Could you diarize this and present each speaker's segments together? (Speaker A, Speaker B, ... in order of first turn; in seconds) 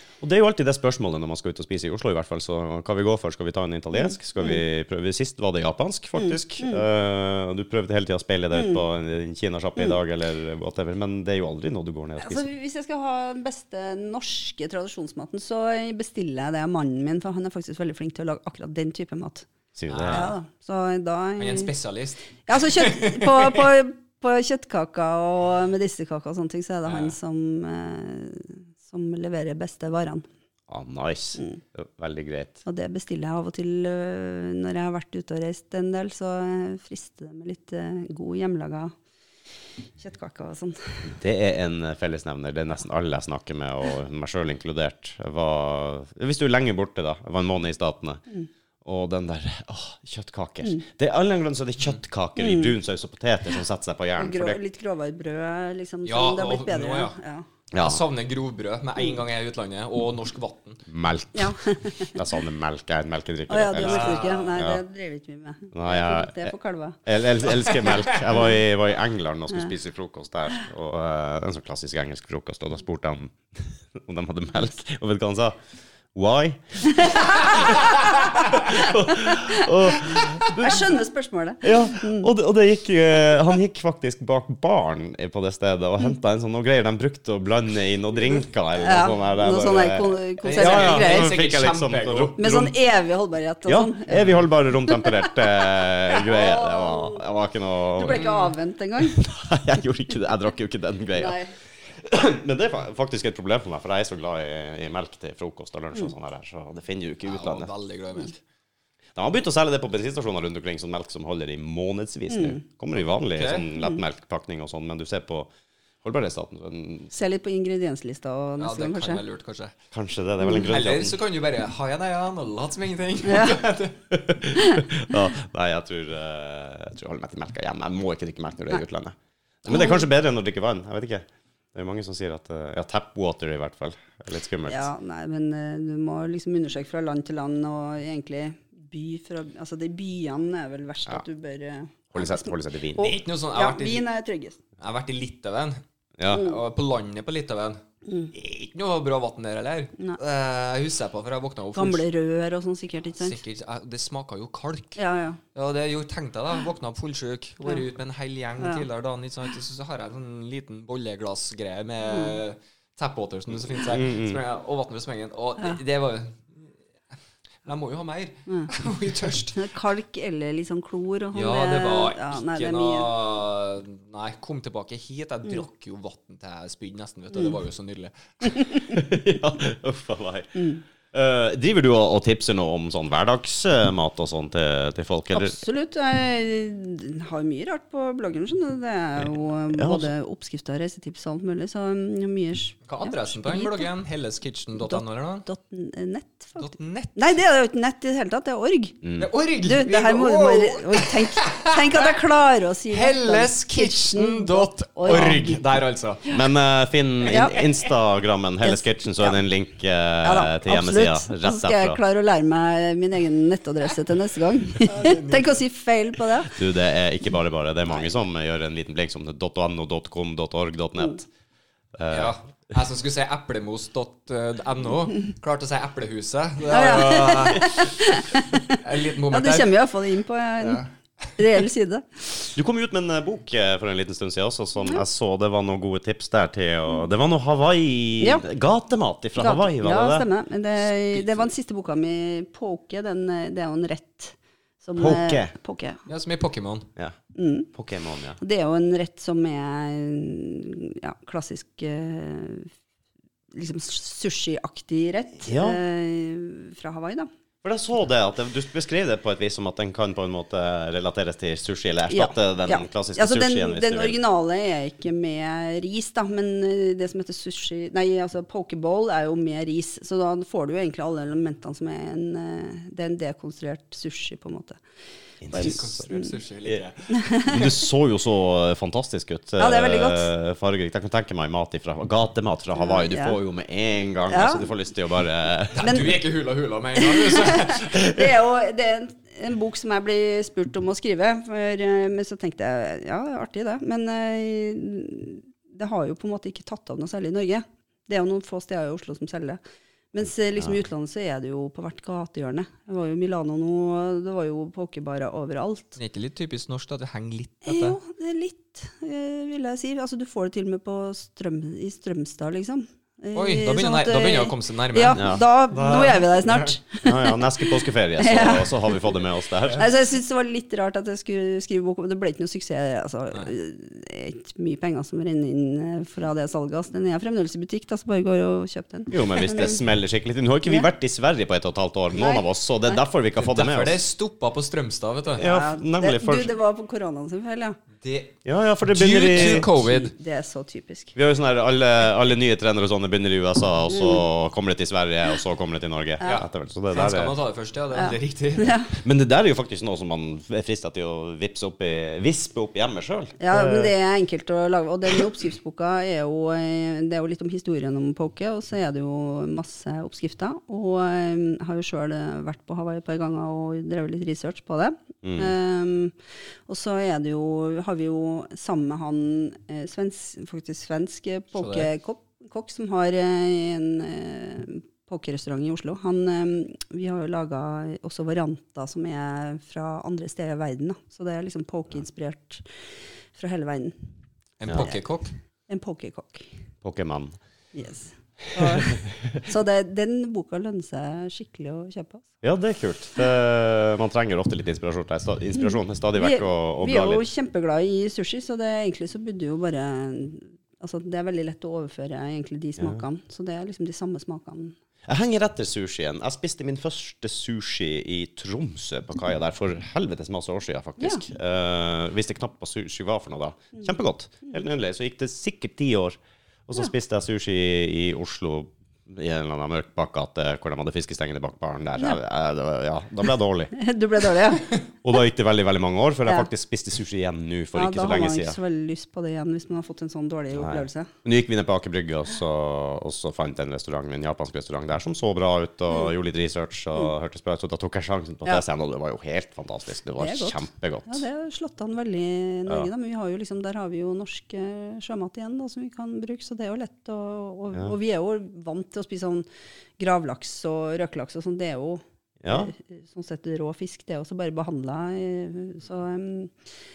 Speaker A: 0.2-12.4, 19.8-20.3, 30.7-32.6, 41.1-48.2, 48.9-54.6, 57.7-58.0, 60.9-64.8, 65.7-66.5, 67.0-75.6, 76.1-77.9, 78.5-81.0, 81.6-92.7, 93.7-98.3, 99.0-101.4, 101.9-107.7, 109.2-115.5, 116.0-117.1, 119.9-121.2, 124.1-134.9, 142.1-143.2, 146.2-146.5, 163.9-164.4, 178.9-180.6, 181.1-185.6, 189.7-190.1, 199.0-199.3, 205.1-205.6, 206.3-212.0, 216.5-221.3, 222.0-222.8, 232.6-240.3, 241.1-241.4, 245.0-245.5, 247.7-248.4, 255.5-255.8, 257.6-264.2, 275.4-276.1, 277.4-286.2, 315.2-316.3, 317.0-319.9, 329.1-334.0, 335.4-336.5, 338.4-339.7, 341.2-347.4, 349.0-353.9, 365.2-365.5, 384.7-384.9, 386.8-387.4, 388.6-389.4, 392.4-397.2, 405.1-423.7, 425.0-428.6, 430.5-441.2, 452.4-452.7
Speaker B: 4.0-4.6, 6.2-6.8, 12.2-19.5, 20.1-21.7, 22.5-30.2, 32.6-38.9, 40.0-41.1, 52.4-52.7, 54.2-57.5, 61.4-62.2, 63.5-67.0, 76.9-79.7, 80.5-82.3, 88.8-91.4, 92.4-97.2, 98.0-99.2, 101.2-101.5, 112.3-112.6, 117.1-119.2, 120.4-120.7, 123.2-123.6, 124.5-124.8, 129.7-130.1, 134.7-144.6, 148.1-148.3, 151.8-153.4, 155.0-155.4, 162.1-162.4, 169.5-173.1, 178.6-179.0, 180.6-180.8, 185.3-193.9, 194.8-199.0, 199.6-205.6, 207.3-207.6, 208.6-209.4, 210.2-216.6, 226.7-230.8, 231.4-232.5, 239.4-246.0, 247.3-247.7, 248.4-252.7, 253.5-257.3, 262.1-274.8, 275.5-276.3, 277.1-277.6, 279.6-280.3, 282.8-283.4, 284.3-284.7, 285.8-286.2, 287.0-299.6, 300.1-306.0, 307.6-319.1, 319.7-329.8, 332.2-333.0, 335.4-337.8, 339.3-341.1, 343.9-344.2, 347.9-348.9, 353.4-366.1, 366.7-382.6, 383.3-384.0, 385.7-386.5, 387.7-392.3, 395.6-404.8, 423.7-424.8, 427.8-431.1, 440.2-449.5, 450.0-456.6
Speaker C: 19.9-20.3, 21.4-23.7, 26.9-27.1, 56.0-57.2, 57.8-60.8, 63.8-64.5, 67.8-68.2, 90.4-92.3, 98.1-98.5, 107.2-108.4, 113.4-113.7, 118.6-119.7, 120.6-124.0, 143.0-144.1, 144.8-147.8, 148.3-152.1, 153.2-155.0, 155.5-166.6, 167.7-169.6, 171.3-178.6, 192.9-195.5, 196.6-197.3, 199.2-202.1, 202.9-206.3, 214.8-215.6, 222.1-229.9, 230.6-231.6, 246.1-246.9, 275.5-277.1, 285.8-288.2, 306.0-308.0, 313.4-315.4, 333.4-335.5, 338.0-338.4, 338.9-340.1, 346.2-348.8, 371.6-371.9, 384.6-385.3